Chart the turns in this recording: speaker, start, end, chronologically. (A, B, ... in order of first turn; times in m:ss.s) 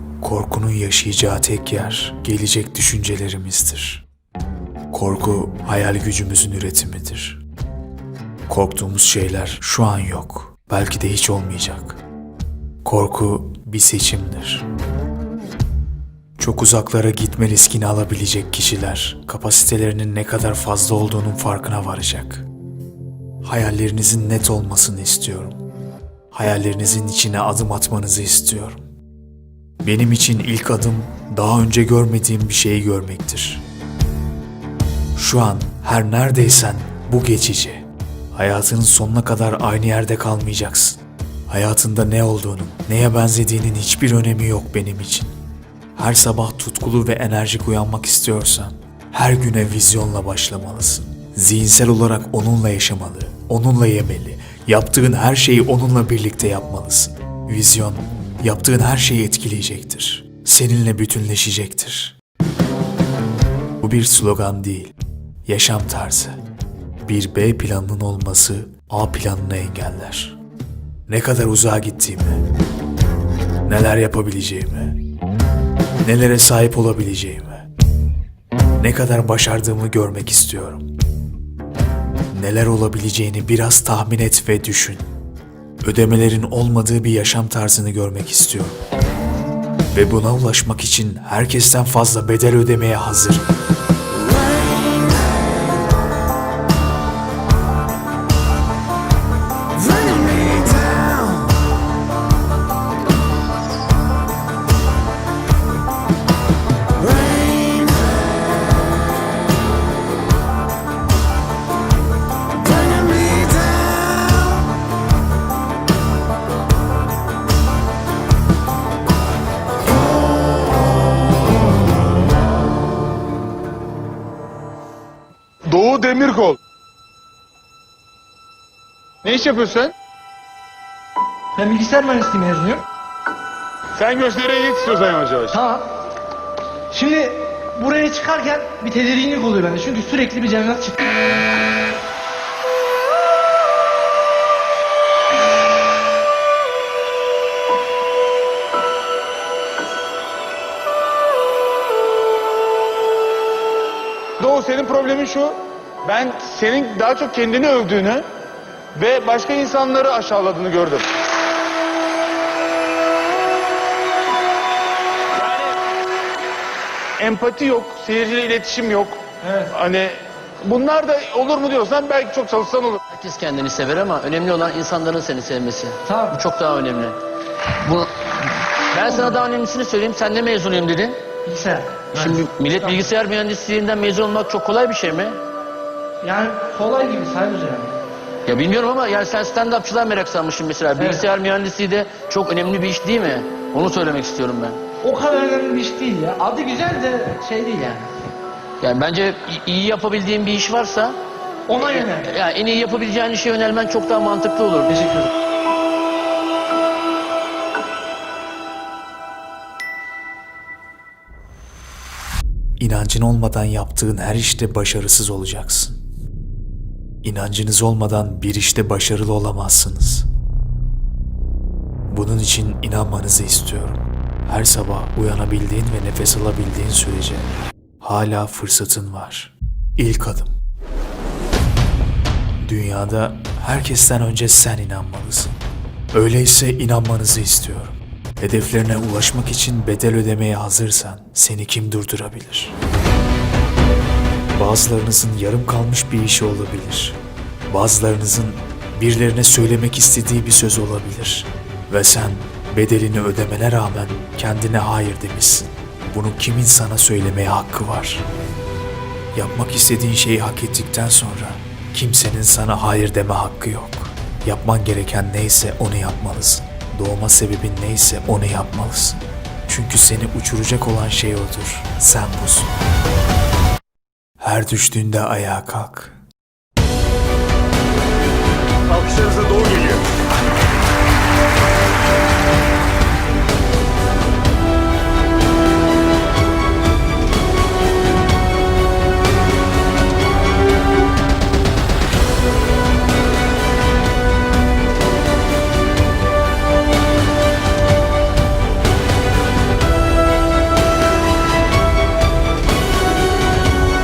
0:00.2-0:04.0 A
0:04.9-0:07.4 A
0:08.5-0:12.0 A
0:12.8-0:14.7 A
0:16.4-0:22.5 A
0:23.4-0:25.6 A
0:26.3-0:28.8 A
0:29.8-0:33.6 A
0:35.2-0:45.4 A
0:46.0-1:02.2 A
1:03.8-1:04.9 A
1:05.5-1:06.4 A
1:07.0-1:10.4 A
1:11.1-1:12.5 A
1:13.7-1:15.0 A
1:16.0-1:17.7 A
1:18.8-1:20.9 A
1:22.3-1:25.1 A
1:25.8-1:28.8 A
1:29.9-1:33.4 A
2:05.7-2:06.6 B
2:09.2-2:09.9 B
2:11.6-2:12.8 C
2:14.0-2:15.6 B
2:15.5-2:15.9 C
2:16.9-2:21.2 C
2:34.4-2:38.2 B
2:39.0-2:41.1 B
2:47.2-2:53.0 B
2:49.4-2:49.7 C
2:53.1-2:57.2 D
2:56.0-2:56.4 C
2:57.8-3:01.2 D
3:01.5-3:03.0 C
3:02.2-3:05.4 D
3:06.2-3:08.0 C
3:08.5-3:14.8 D
3:11.0-3:11.3 C
3:15.0-3:18.1 C
3:18.8-3:21.2 D
3:21.7-3:22.3 C
3:21.8-3:24.9 D
3:24.9-3:25.3 C
3:32.8-3:36.0 A
3:37.2-3:40.3 A
3:42.1-3:50.5 A
3:52.6-3:55.6 A
3:56.1-4:02.8 A
4:04.6-4:18.3 A
4:19.3-4:32.7 A
4:34.4-4:36.2 A
4:38.9-4:39.8 B